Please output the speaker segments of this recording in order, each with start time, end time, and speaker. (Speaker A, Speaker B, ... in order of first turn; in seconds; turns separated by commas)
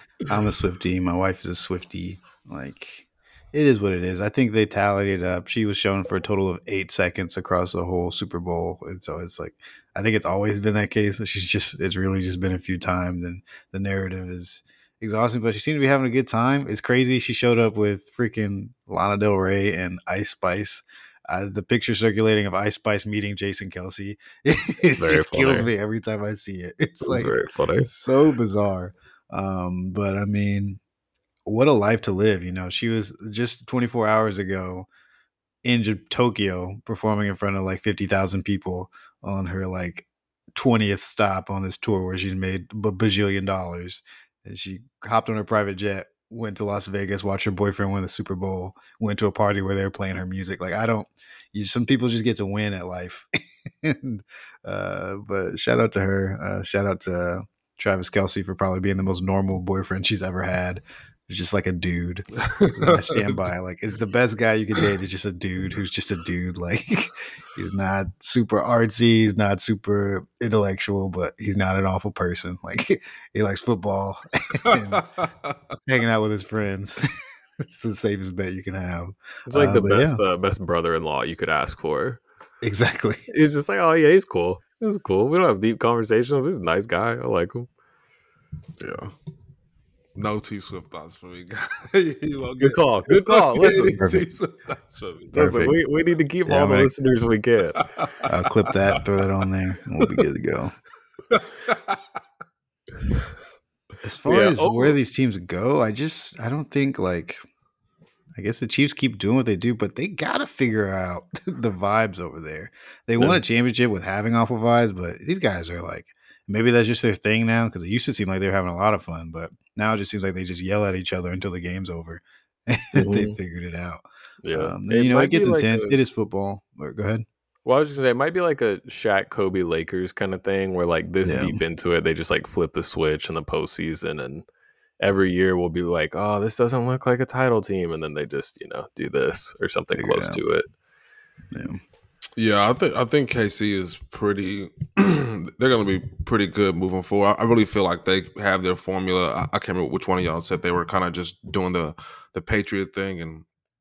Speaker A: 0.3-30.8, Speaker B: 25.0-25.7, Speaker B: 27.0-27.9, Speaker A: 31.5-34.9, Speaker A: 35.6-53.3, Speaker A: 53.8-75.0, Speaker C: 62.5-63.4, Speaker C: 74.7-75.5, Speaker A: 75.9-77.1, Speaker A: 77.6-80.2, Speaker B: 79.5-82.2, Speaker A: 82.6-83.2, Speaker B: 83.3-87.7, Speaker C: 88.8-89.1, Speaker C: 90.2-95.4, Speaker B: 92.6-94.0, Speaker A: 94.0-94.3, Speaker A: 95.3-95.8, Speaker B: 95.3-97.8, Speaker A: 96.5-96.9, Speaker A: 98.3-100.8, Speaker C: 101.3-102.0, Speaker A: 104.0-107.4, Speaker B: 104.3-105.0, Speaker A: 108.3-127.3, Speaker B: 123.0-123.4, Speaker B: 124.4-126.0, Speaker B: 127.7-134.5, Speaker A: 131.2-131.6, Speaker B: 135.0-140.7, Speaker A: 139.9-140.4, Speaker A: 141.5-141.8, Speaker C: 142.4-153.5